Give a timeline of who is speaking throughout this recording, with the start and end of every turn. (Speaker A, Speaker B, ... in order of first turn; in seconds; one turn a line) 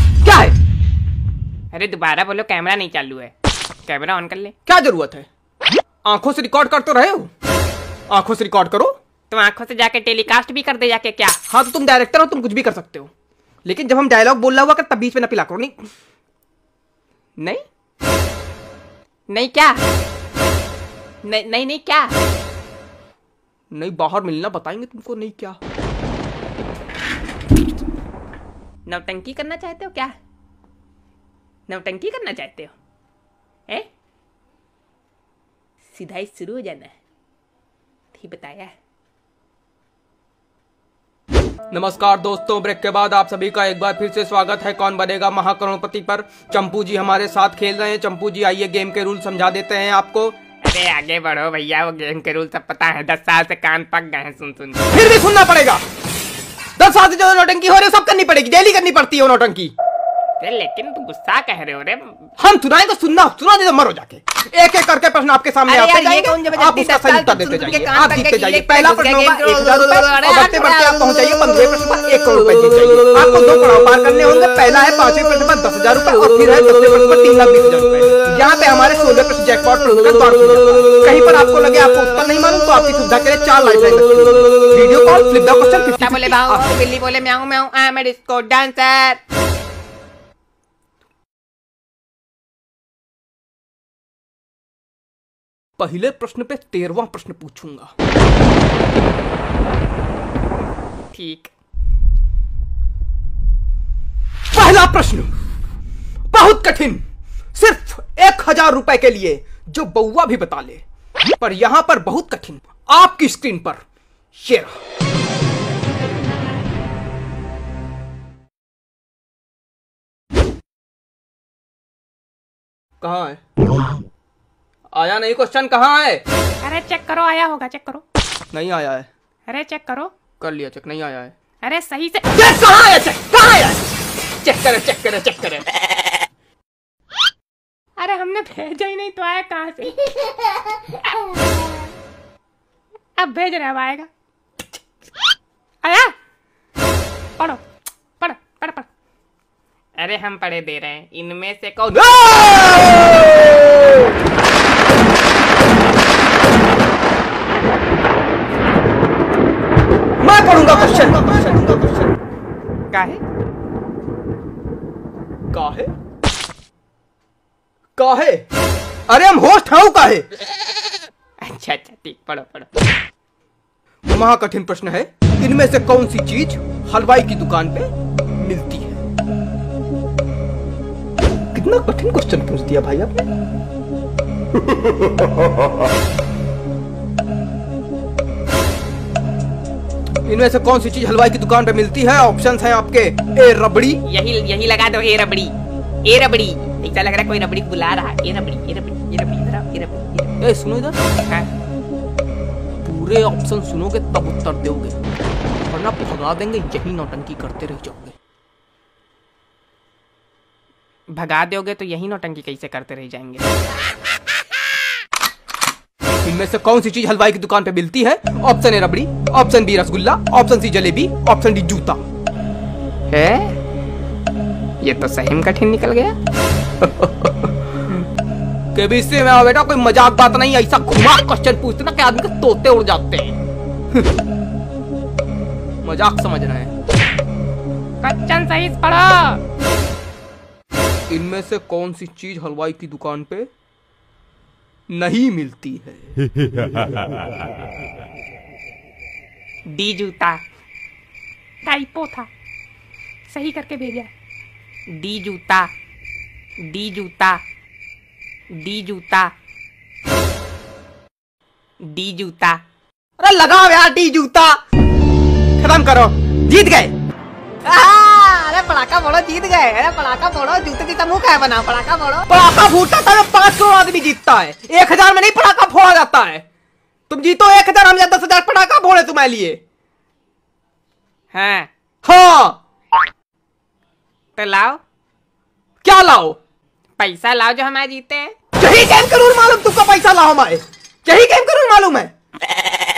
Speaker A: 0.2-0.5
Speaker B: 1.7-3.3
Speaker B: 3.9-4.5
Speaker A: 4.7-5.3
Speaker A: 6.0-7.3
Speaker A: 8.1-8.9
Speaker B: 9.3-11.4
Speaker A: 11.5-13.1
Speaker A: 13.6-15.7
Speaker B: 19.3-19.8
Speaker B: 21.2-22.1
Speaker A: 23.7-25.6
Speaker B: 28.9-30.1
Speaker B: 31.7-32.7
Speaker B: 35.9-36.9
Speaker B: 38.1-38.7
Speaker A: 41.7-50.4
Speaker B: 50.6-54.8
Speaker A: 54.9-55.8
Speaker A: 56.8-59.7
Speaker B: 60.4-62.2
Speaker A: 62.4-86.7
Speaker B: 65.7-71.0
Speaker B: 86.0-89.2
Speaker A: 95.8-97.9
Speaker B: 101.1-101.5
Speaker A: 104.5-105.3
Speaker A: 106.3-107.0
Speaker A: 107.5-110.8
Speaker A: 111.4-113.8
Speaker A: 114.3-114.7
Speaker A: 123.0-123.4
Speaker A: 124.9-126.2
Speaker B: 126.6-128.0
Speaker A: 128.5-129.1
Speaker B: 129.5-130.1
Speaker A: 130.4-131.3
Speaker B: 131.6-132.3
Speaker A: 132.3-133.8
Speaker A: 134.4-135.6
Speaker B: 138.0-141.9
Speaker B: 143.2-144.1
Speaker B: 145.8-146.1
Speaker B: 148.2-148.8
Speaker B: 150.0-152.3
Speaker A: 151.9-154.1
Speaker A: 160.2-162.1
Speaker B: 162.9-163.2
Speaker A: 165.5-165.9
Speaker A: 168.0-168.4
Speaker A: 169.1-170.2
Speaker B: 171.4-172.7
Speaker A: 174.1-179.0
Speaker A: 181.5-183.3
Speaker A: 190.2-194.0
Speaker B: 194.0-200.4
Speaker A: 200.4-201.0
Speaker A: 202.8-204.9
Speaker A: 205.7-208.1
Speaker B: 211.1-213.4
Speaker A: 216.2-222.0
Speaker B: 223.1-223.6
Speaker B: 224.8-226.2
Speaker A: 226.8-227.4
Speaker A: 228.7-233.3
Speaker A: 235.8-236.7
Speaker B: 238.0-239.4
Speaker A: 241.1-243.5
Speaker A: 244.9-246.1
Speaker B: 249.7-250.4
Speaker B: 251.6-252.3
Speaker B: 253.3-254.1
Speaker B: 255.0-255.7
Speaker B: 256.6-257.4
Speaker B: 258.6-259.3
Speaker B: 261.8-262.6
Speaker A: 263.2-264.6
Speaker A: 265.6-266.9
Speaker B: 267.6-272.3
Speaker A: 272.3-276.4
Speaker A: 277.1-279.6
Speaker B: 281.3-281.7
Speaker A: 282.0-282.6
Speaker B: 284.4-284.8
Speaker A: 285.8-286.4
Speaker B: 287.0-288.3
Speaker A: 288.6-292.1